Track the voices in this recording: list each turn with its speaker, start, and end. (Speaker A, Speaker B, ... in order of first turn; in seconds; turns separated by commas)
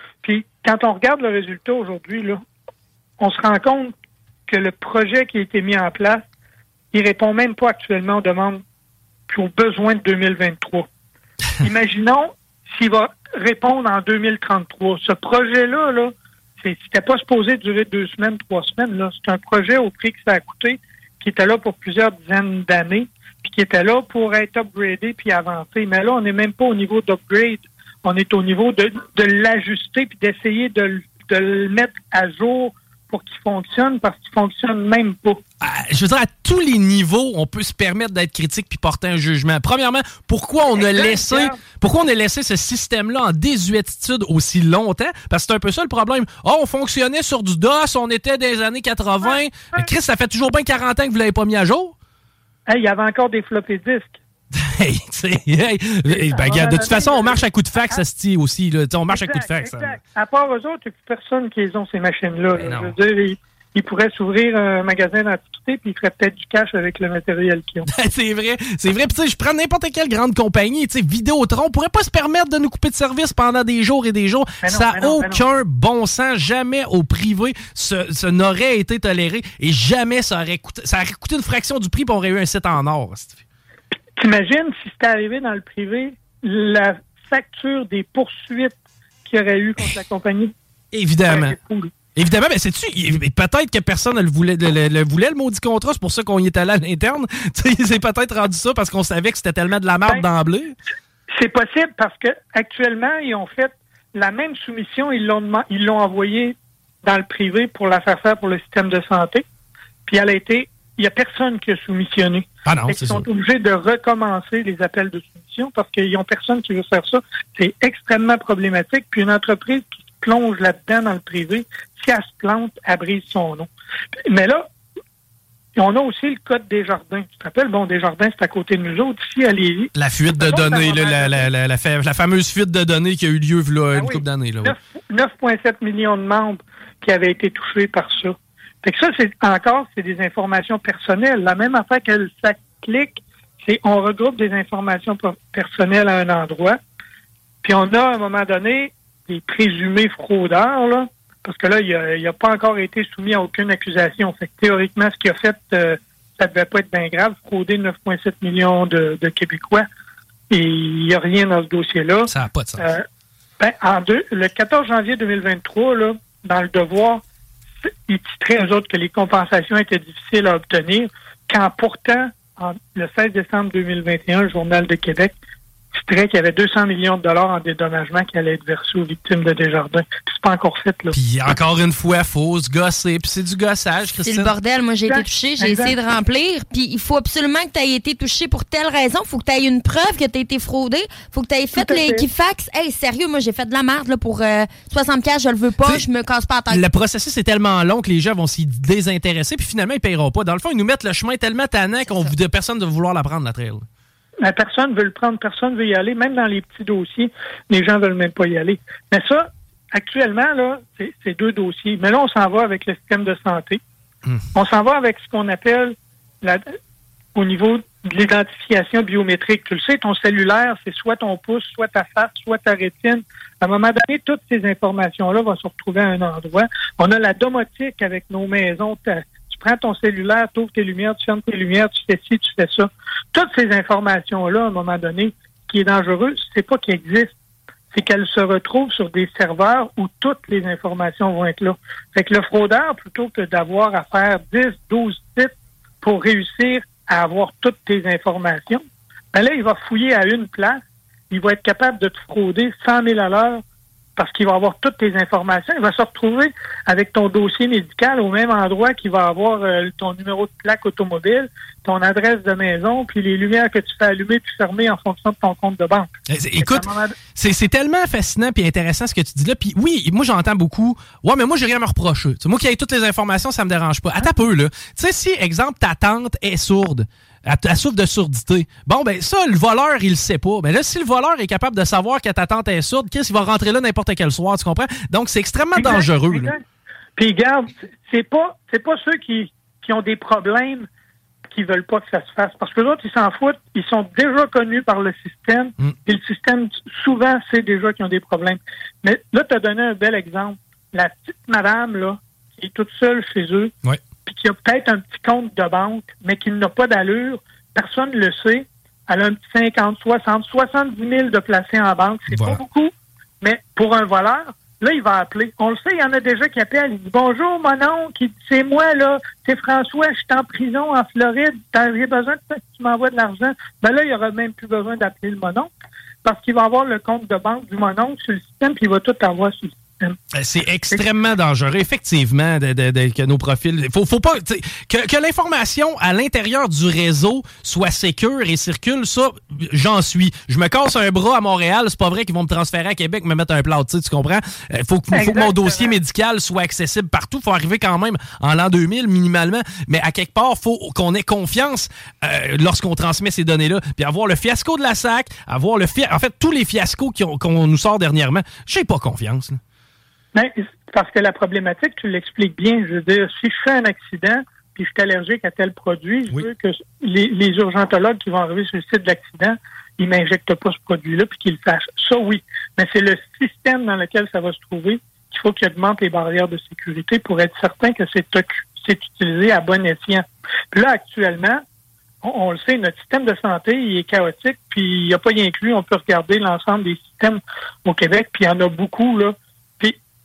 Speaker A: 0.2-2.4, Speaker A: 3.2-3.9, Speaker A: 4.5-6.2, Speaker A: 6.9-8.6, Speaker A: 9.3-10.9, Speaker A: 11.6-35.4, Speaker B: 35.6-51.9, Speaker A: 40.7-41.6, Speaker A: 49.2-49.9, Speaker A: 52.7-54.2, Speaker B: 54.5-60.0, Speaker A: 56.1-58.0, Speaker A: 59.1-67.9, Speaker B: 62.5-62.9, Speaker B: 67.8-83.4, Speaker A: 74.6-75.4, Speaker A: 84.2-90.5, Speaker B: 90.9-91.6, Speaker A: 91.3-91.9, Speaker B: 92.1-100.8, Speaker A: 101.3-109.4, Speaker A: 110.1-123.7, Speaker B: 112.7-113.3, Speaker A: 124.3-124.7, Speaker A: 125.7-131.5, Speaker B: 129.9-134.7, Speaker A: 133.9-146.8, Speaker A: 147.6-159.8, Speaker A: 160.5-163.0, Speaker B: 162.3-162.8, Speaker A: 163.6-167.2, Speaker A: 167.8-175.3, Speaker A: 175.9-181.1, Speaker B: 181.1-184.5, Speaker C: 184.2-196.8, Speaker A: 185.1-185.9, Speaker A: 191.8-192.2, Speaker B: 196.7-203.8, Speaker C: 202.1-202.3, Speaker A: 204.4-213.8, Speaker A: 214.5-216.8, Speaker A: 217.3-237.3, Speaker A: 237.9-253.6, Speaker A: 254.2-267.2, Speaker B: 266.3-286.5, Speaker A: 285.8-286.6, Speaker A: 287.2-290.9, Speaker A: 291.5-303.7, Speaker A: 304.2-325.7, Speaker B: 312.3-312.6, Speaker A: 326.2-330.2, Speaker B: 330.3-359.6, Speaker A: 345.1-345.9, Speaker A: 360.3-381.6, Speaker A: 382.2-390.0